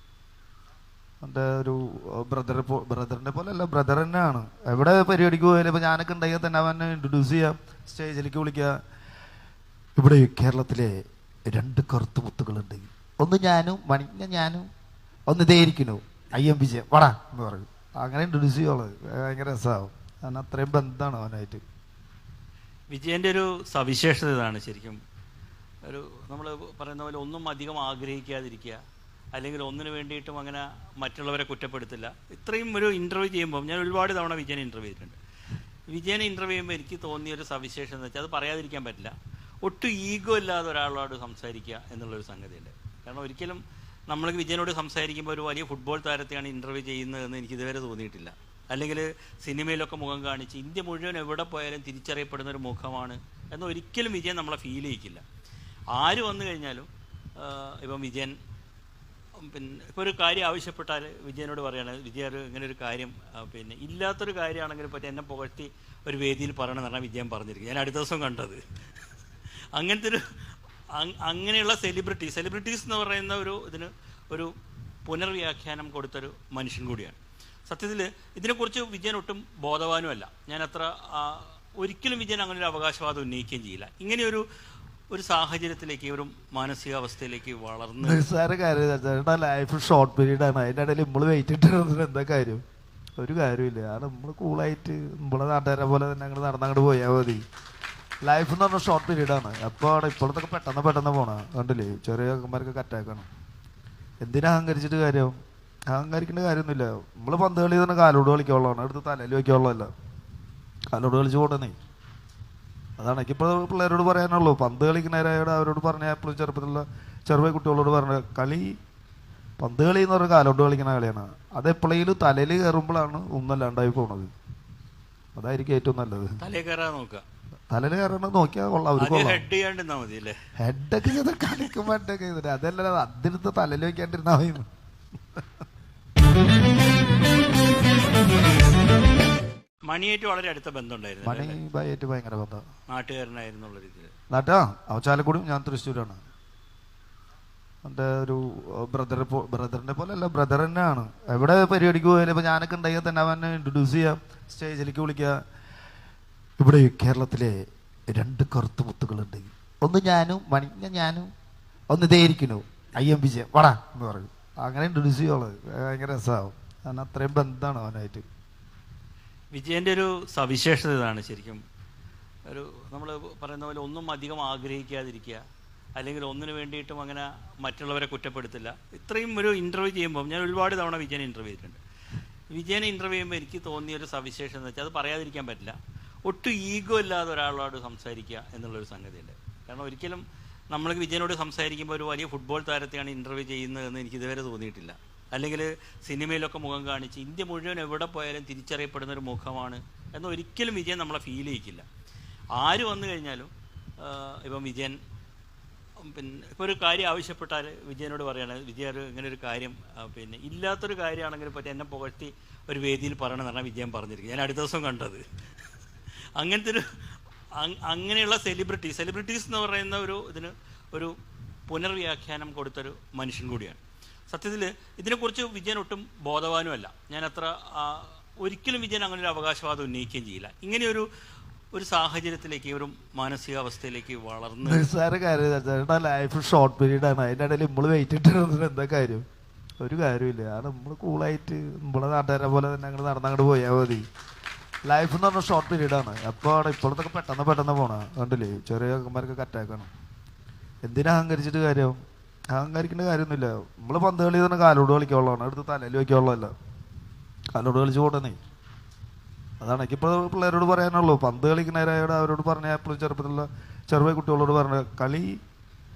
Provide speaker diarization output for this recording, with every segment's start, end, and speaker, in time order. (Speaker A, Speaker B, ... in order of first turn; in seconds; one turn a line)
Speaker A: 1.2-8.7
Speaker A: 10.0-10.9
Speaker A: 11.5-14.7
Speaker A: 15.3-21.6
Speaker B: 22.9-25.0
Speaker B: 25.8-28.8
Speaker B: 29.3-35.2
Speaker B: 35.9-55.2
Speaker B: 55.9-58.4
Speaker B: 59.4-68.6
Speaker B: 69.7-70.4
Speaker B: 70.9-74.5
Speaker B: 75.0-84.4
Speaker B: 85.1-88.2
Speaker A: 88.0-92.6
Speaker A: 93.2-97.4
Speaker A: 98.2-103.3
Speaker A: 104.2-105.3
Speaker A: 105.9-109.9
Speaker A: 110.9-111.8
Speaker A: 113.0-118.8
Speaker A: 119.6-124.3
Speaker A: 125.3-126.4
Speaker B: 126.4-127.2
Speaker A: 127.7-129.4
Speaker B: 129.0-130.3
Speaker A: 130.6-134.7
Speaker B: 139.9-141.6
Speaker A: 141.2-142.6
Speaker B: 142.9-144.1
Speaker A: 144.3-146.2
Speaker A: 147.8-155.3
Speaker A: 156.6-157.6
Speaker A: 158.1-161.3
Speaker A: 161.9-168.2
Speaker B: 169.5-171.6
Speaker B: 172.4-175.4
Speaker B: 176.0-181.8
Speaker B: 182.5-201.8
Speaker B: 202.6-204.9
Speaker B: 206.0-215.2
Speaker B: 216.3-216.9
Speaker B: 217.5-221.2
Speaker B: 221.7-231.1
Speaker B: 231.7-234.8
Speaker A: 234.6-239.2
Speaker A: 239.8-244.0
Speaker A: 244.9-249.9
Speaker A: 250.8-251.9
Speaker A: 252.5-256.5
Speaker A: 257.5-258.4
Speaker A: 259.6-265.4